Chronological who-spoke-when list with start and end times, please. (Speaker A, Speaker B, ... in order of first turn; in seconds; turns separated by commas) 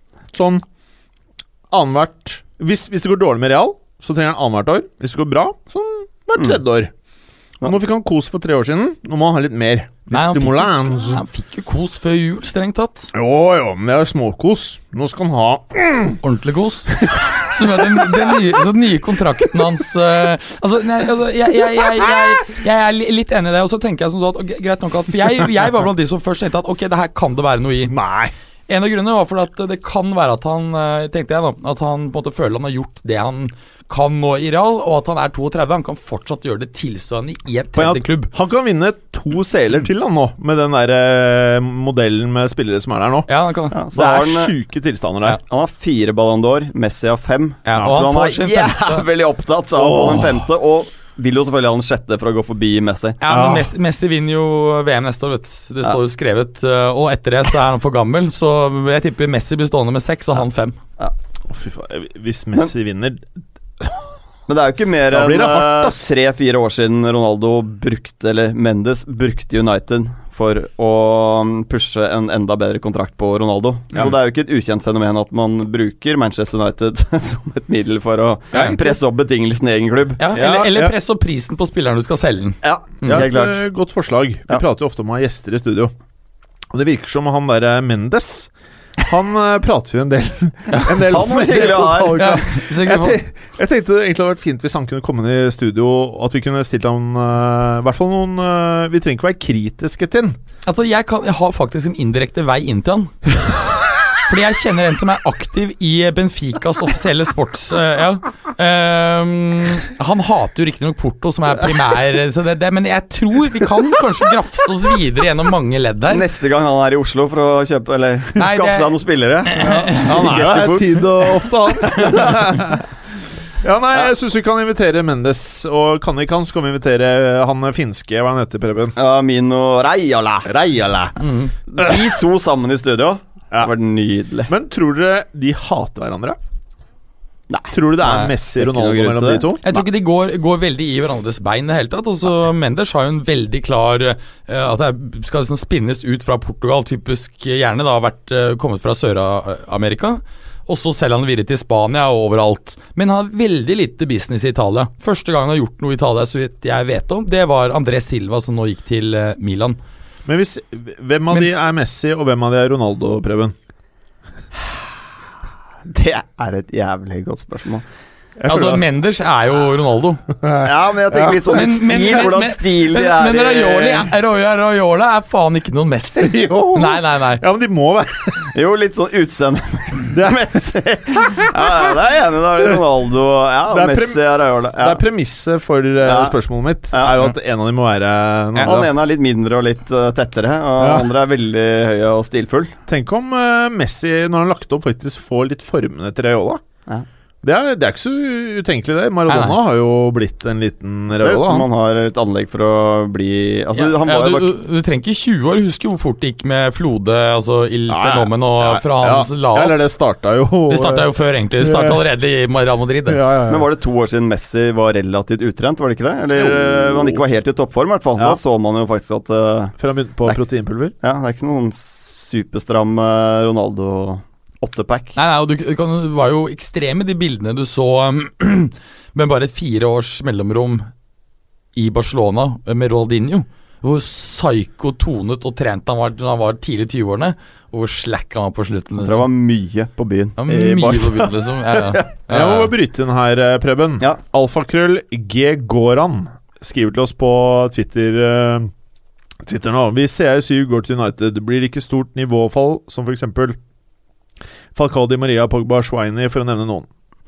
Speaker A: 0.3-0.6, Speaker A: 1.7-6.9, Speaker A: 7.6-11.2, Speaker B: 10.1-13.1, Speaker A: 13.1-16.2, Speaker B: 16.2-27.9, Speaker A: 16.9-18.5, Speaker A: 21.8-22.1, Speaker A: 27.9-28.3, Speaker B: 28.7-38.3, Speaker A: 37.8-43.3, Speaker B: 43.3-43.8, Speaker C: 43.7-44.5, Speaker A: 43.9-45.4, Speaker C: 45.3-53.2, Speaker B: 47.6-49.0, Speaker A: 49.8-50.5, Speaker B: 53.2-60.8, Speaker A: 53.3-53.7, Speaker A: 61.5-63.2, Speaker A: 63.8-64.1, Speaker C: 64.5-80.2, Speaker A: 65.1-66.1, Speaker A: 78.5-78.9, Speaker B: 80.2-83.2, Speaker A: 80.3-81.0, Speaker C: 82.6-83.6, Speaker A: 83.0-85.9, Speaker A: 86.7-100.4, Speaker B: 90.7-93.2, Speaker C: 90.9-92.4, Speaker B: 100.7-103.3, Speaker B: 104.2-116.2, Speaker C: 116.1-122.5, Speaker B: 118.3-120.5, Speaker A: 120.0-122.9, Speaker A: 123.6-128.9, Speaker C: 128.9-130.5, Speaker A: 130.4-131.2, Speaker B: 131.2-131.5, Speaker C: 131.7-134.5, Speaker A: 131.8-132.1, Speaker A: 134.5-136.4, Speaker C: 137.5-139.4, Speaker A: 137.7-139.8, Speaker B: 139.6-159.8, Speaker A: 160.2-163.5, Speaker B: 161.3-161.6, Speaker C: 165.8-167.8, Speaker A: 168.4-168.8, Speaker B: 168.5-170.2, Speaker A: 170.4-171.6, Speaker C: 170.6-174.1, Speaker B: 171.5-177.4, Speaker A: 176.2-178.5, Speaker C: 178.5-185.0, Speaker A: 180.1-181.9, Speaker A: 183.7-188.9, Speaker C: 186.0-186.3, Speaker B: 188.6-188.8, Speaker C: 188.6-192.7, Speaker A: 190.8-191.1, Speaker A: 192.9-196.6, Speaker A: 197.4-201.7, Speaker B: 199.3-199.6, Speaker C: 201.1-204.5, Speaker B: 203.7-209.8, Speaker A: 207.9-212.0, Speaker B: 210.7-213.2, Speaker A: 213.1-213.7, Speaker C: 213.5-219.7, Speaker A: 216.3-217.2, Speaker A: 219.8-220.9, Speaker C: 221.0-225.2, Speaker B: 225.2-230.9, Speaker B: 231.7-239.2, Speaker C: 239.0-242.1, Speaker B: 240.4-242.7, Speaker A: 242.3-248.7, Speaker A: 249.4-253.6, Speaker A: 254.7-256.9